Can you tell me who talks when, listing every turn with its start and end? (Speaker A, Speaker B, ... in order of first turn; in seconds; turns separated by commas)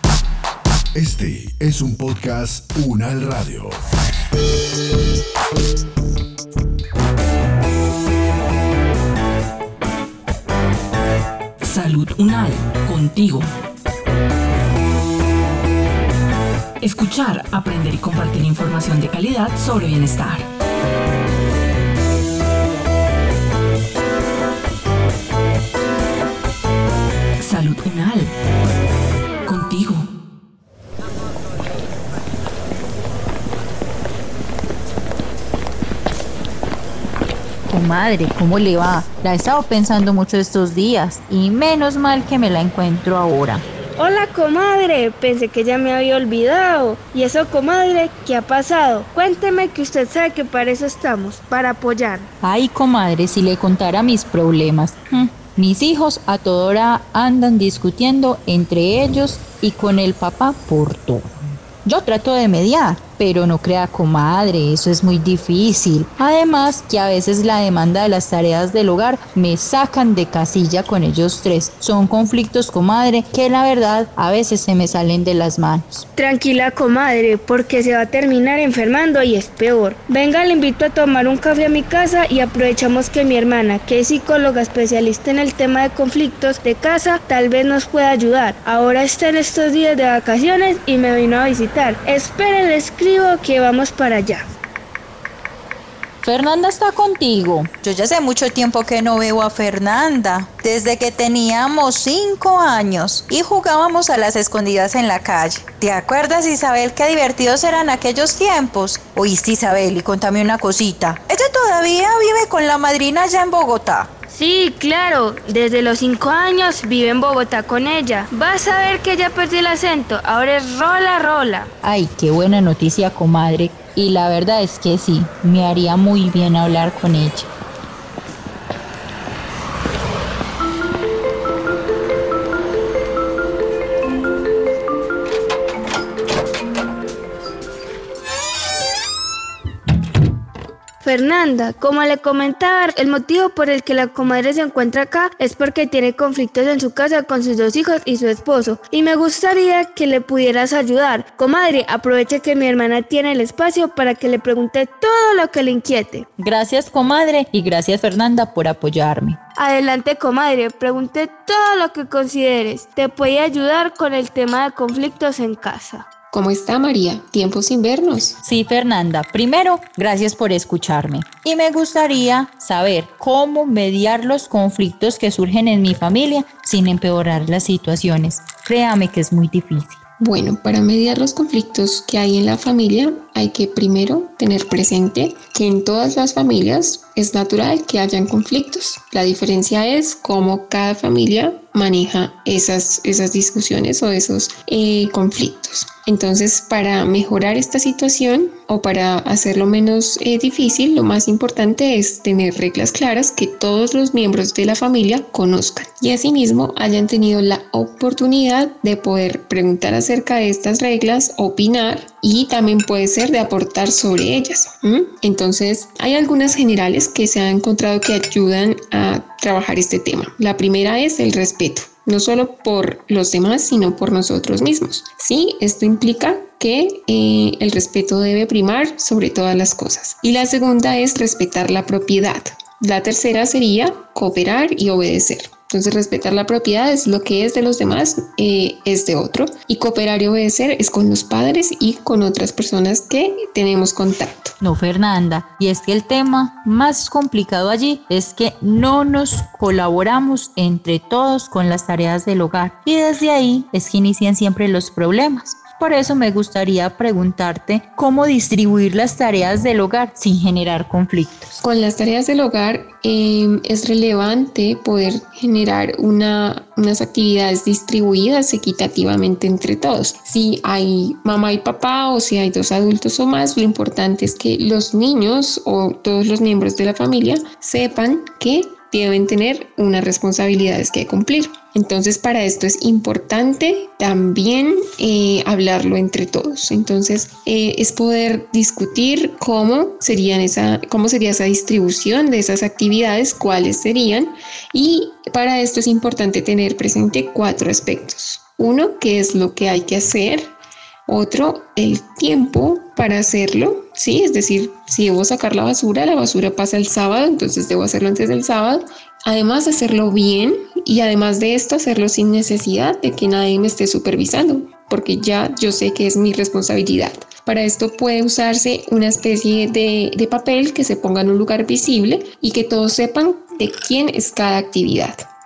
Speaker A: 0.9-3.7, Speaker B: 11.6-13.5, Speaker B: 16.8-20.5, Speaker B: 27.4-28.3, Speaker B: 29.4-30.0, Speaker C: 37.7-43.6, Speaker D: 44.0-52.3, Speaker C: 52.4-61.2, Speaker C: 61.8-76.0, Speaker D: 76.2-94.4, Speaker C: 96.2-114.1, Speaker D: 114.3-121.7, Speaker C: 121.8-127.5, Speaker D: 141.0-156.2, Speaker C: 156.4-159.4, Speaker D: 159.6-166.1, Speaker E: 166.3-168.4, Speaker C: 168.4-180.0, Speaker E: 180.2-244.5, Speaker C: 244.6-261.5, Speaker E: 261.6-300.5, Speaker E: 301.1-325.2